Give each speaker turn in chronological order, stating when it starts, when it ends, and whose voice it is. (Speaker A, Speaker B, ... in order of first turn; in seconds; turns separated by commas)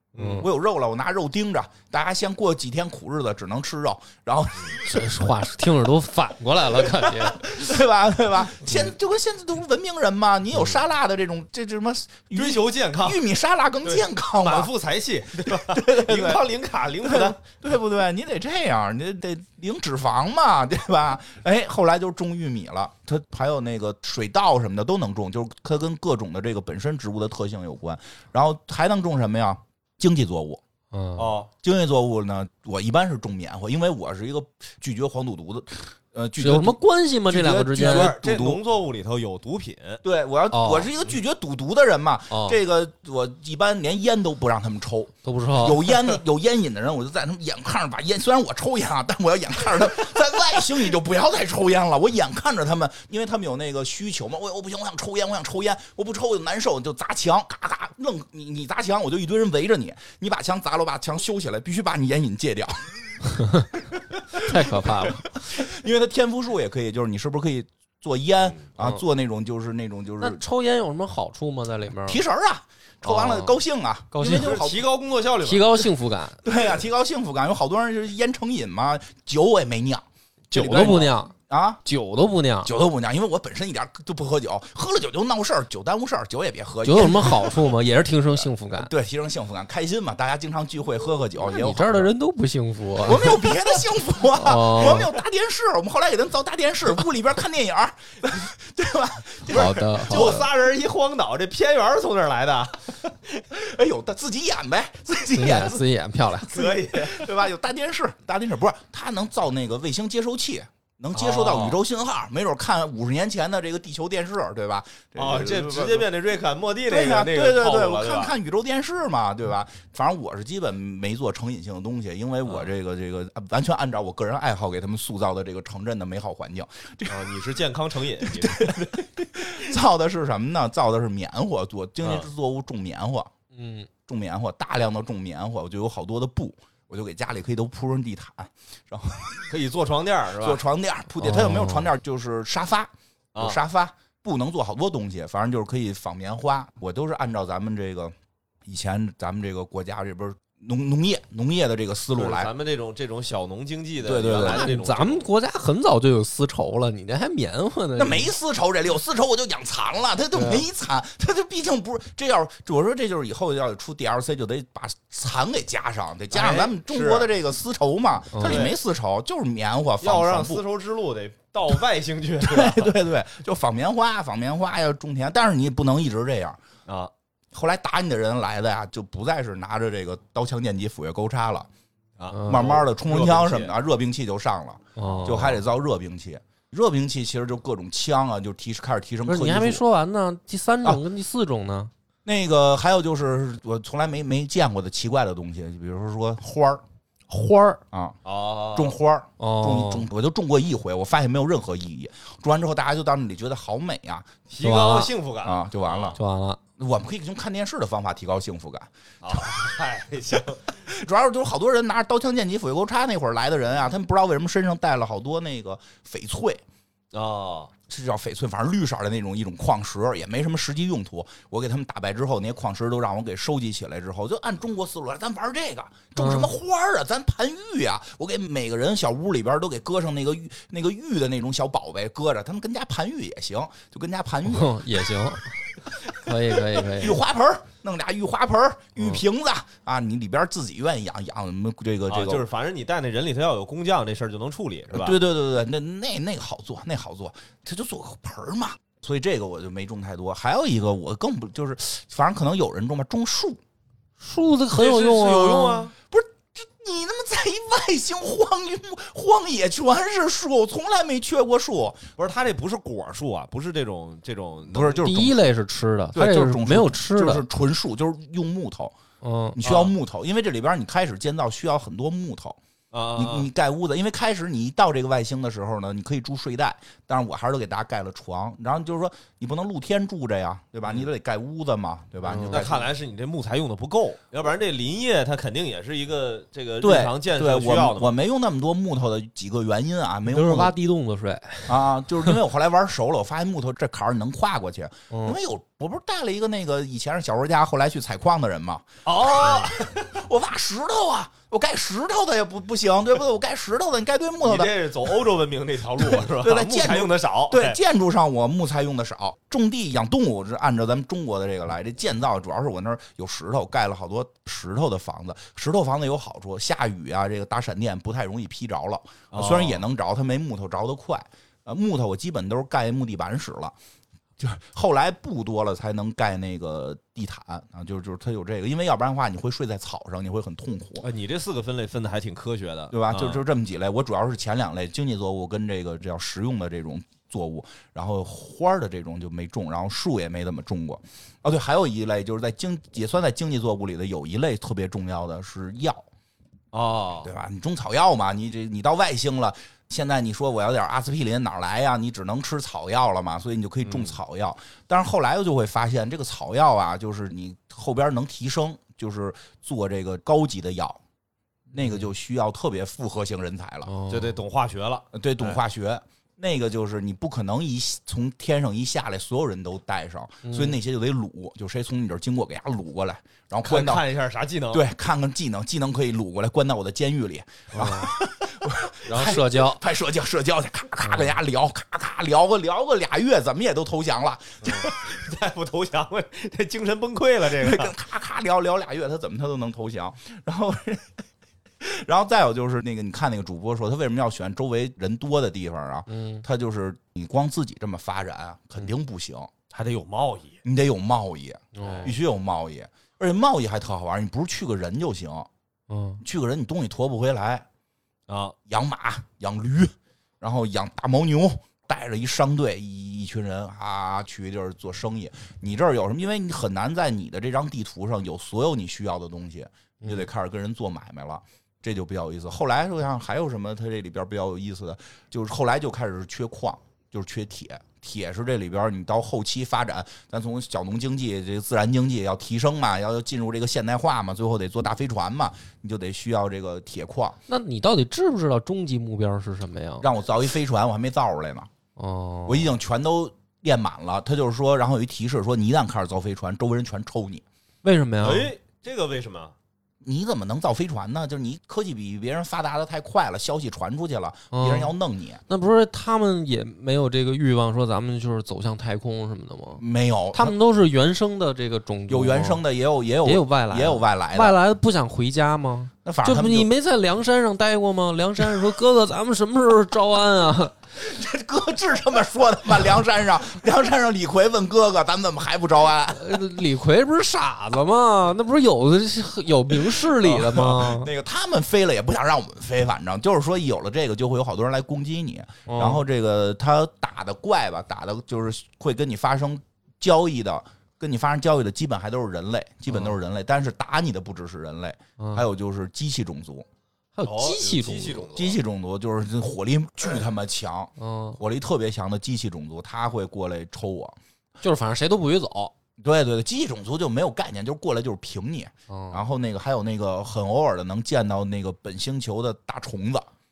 Speaker A: 0.1-0.5, Speaker B: 0.2-0.5, Speaker C: 0.4-5.2, Speaker B: 4.8-7.5, Speaker C: 6.9-14.7, Speaker A: 12.3-13.2, Speaker A: 13.8-17.4, Speaker C: 15.4-16.5, Speaker C: 17.0-30.6, Speaker B: 30.9-31.4, Speaker A: 31.2-31.5, Speaker C: 31.6-38.6, Speaker B: 36.4-38.1, Speaker A: 37.8-40.0, Speaker C: 40.0-63.1, Speaker B: 40.5-40.9, Speaker B: 42.3-42.6, Speaker B: 45.2-45.9, Speaker B: 63.2-63.7, Speaker C: 64.3-70.4, Speaker B: 64.4-65.3, Speaker B: 70.2-72.2, Speaker C: 72.0-74.8, Speaker B: 73.0-73.6, Speaker B: 74.1-74.6, Speaker A: 74.2-75.8, Speaker B: 75.4-76.4, Speaker C: 76.4-81.8, Speaker B: 80.5-81.3, Speaker A: 80.8-81.1, Speaker B: 81.8-82.7, Speaker C: 82.6-87.8, Speaker B: 86.8-88.9, Speaker C: 88.4-92.1, Speaker B: 91.4-93.8, Speaker C: 93.0-100.2, Speaker B: 94.3-95.1, Speaker B: 99.5-100.5, Speaker A: 100.0-103.4, Speaker C: 103.5-105.8, Speaker B: 105.3-106.5, Speaker C: 106.4-116.1, Speaker A: 106.5-107.3, Speaker A: 111.1-111.8, Speaker A: 115.2-118.3, Speaker C: 116.9-127.3, Speaker A: 127.1-129.0, Speaker C: 128.2-133.3, Speaker A: 132.0-132.3, Speaker B: 133.5-133.9, Speaker C: 134.1-139.5, Speaker A: 139.5-140.6, Speaker C: 140.4-148.1, Speaker B: 141.2-141.9, Speaker A: 143.3-143.6, Speaker C: 148.7-152.5, Speaker A: 152.2-155.3, Speaker C: 154.0-154.7, Speaker B: 154.4-158.3, Speaker C: 158.0-170.6, Speaker B: 160.3-160.6, Speaker A: 166.3-167.3, Speaker B: 168.3-168.7, Speaker A: 168.4-168.8, Speaker A: 170.0-173.0, Speaker C: 172.4-176.6, Speaker C: 177.5-181.7, Speaker A: 182.2-183.7, Speaker B: 182.3-182.8, Speaker C: 182.5-189.8, Speaker B: 185.0-185.6, Speaker A: 185.1-185.5, Speaker B: 189.3-191.9, Speaker C: 192.2-196.8, Speaker B: 197.3-197.8, Speaker C: 197.9-198.2, Speaker A: 198.2-198.9, Speaker C: 198.7-204.3, Speaker B: 199.4-200.1, Speaker A: 204.5-206.2, Speaker B: 204.6-205.1, Speaker C: 205.4-206.2, Speaker B: 206.2-206.6, Speaker C: 206.8-209.7, Speaker A: 209.2-210.7, Speaker C: 210.7-216.6, Speaker A: 217.1-217.7, Speaker C: 217.9-234.9, Speaker B: 226.2-226.5, Speaker B: 234.5-237.2, Speaker C: 236.9-242.4, Speaker A: 242.1-245.2, Speaker C: 244.9-253.6, Speaker B: 254.2-255.9, Speaker A: 254.7-255.9, Speaker C: 256.1-262.1, Speaker A: 262.2-265.2, Speaker C: 264.7-265.4, Speaker B: 265.0-267.4, Speaker C: 266.1-268.9, Speaker B: 269.2-269.6, Speaker C: 269.6-272.6, Speaker A: 269.6-269.9, Speaker A: 272.9-273.5, Speaker C: 273.1-282.9, Speaker B: 282.3-282.6, Speaker A: 282.3-288.1, Speaker C: 286.8-290.7, Speaker B: 290.3-292.4, Speaker C: 291.7-305.2, Speaker B: 295.1-295.4, Speaker A: 299.1-300.1, Speaker A: 304.4-307.8, Speaker C: 306.0-323.8, Speaker A: 319.3-319.8, Speaker C: 324.4-331.1, Speaker A: 331.0-333.4, Speaker C: 332.9-346.1, Speaker A: 346.7-347.3, Speaker C: 347.2-361.0, Speaker A: 353.9-354.1, Speaker C: 361.7-363.9, Speaker B: 363.9-364.4, Speaker A: 364.1-365.6, Speaker C: 365.1-374.0, Speaker B: 370.4-370.8, Speaker A: 373.6-374.8, Speaker C: 374.7-385.0, Speaker B: 377.7-378.1, Speaker B: 379.0-379.8, Speaker B: 381.0-381.3, Speaker A: 384.6-387.9, Speaker C: 387.5-391.1, Speaker C: 391.8-399.5, Speaker B: 396.1-396.4, Speaker A: 399.7-400.6, Speaker C: 400.6-405.5, Speaker B: 401.8-402.1, Speaker A: 401.8-402.1, Speaker B: 405.9-406.2, Speaker C: 406.2-407.6, Speaker A: 408.3-408.6, Speaker C: 408.7-437.4, Speaker B: 437.5-440.1, Speaker C: 440.0-441.7, Speaker B: 442.0-442.7, Speaker C: 442.5-447.4, Speaker B: 447.8-448.5, Speaker A: 448.2-449.6, Speaker C: 450.0-455.4, Speaker B: 454.5-454.9, Speaker B: 455.5-462.6, Speaker C: 459.8-460.6, Speaker C: 462.1-464.6, Speaker B: 463.2-470.8, Speaker C: 466.0-466.7, Speaker C: 470.9-476.4, Speaker B: 476.1-481.1, Speaker C: 479.9-496.7, Speaker B: 485.7-486.0, Speaker B: 495.2-495.4, Speaker B: 497.2-498.3, Speaker A: 497.2-498.6, Speaker C: 498.3-504.2, Speaker B: 501.0-501.4, Speaker B: 504.6-505.7, Speaker C: 506.0-513.3, Speaker B: 508.9-509.2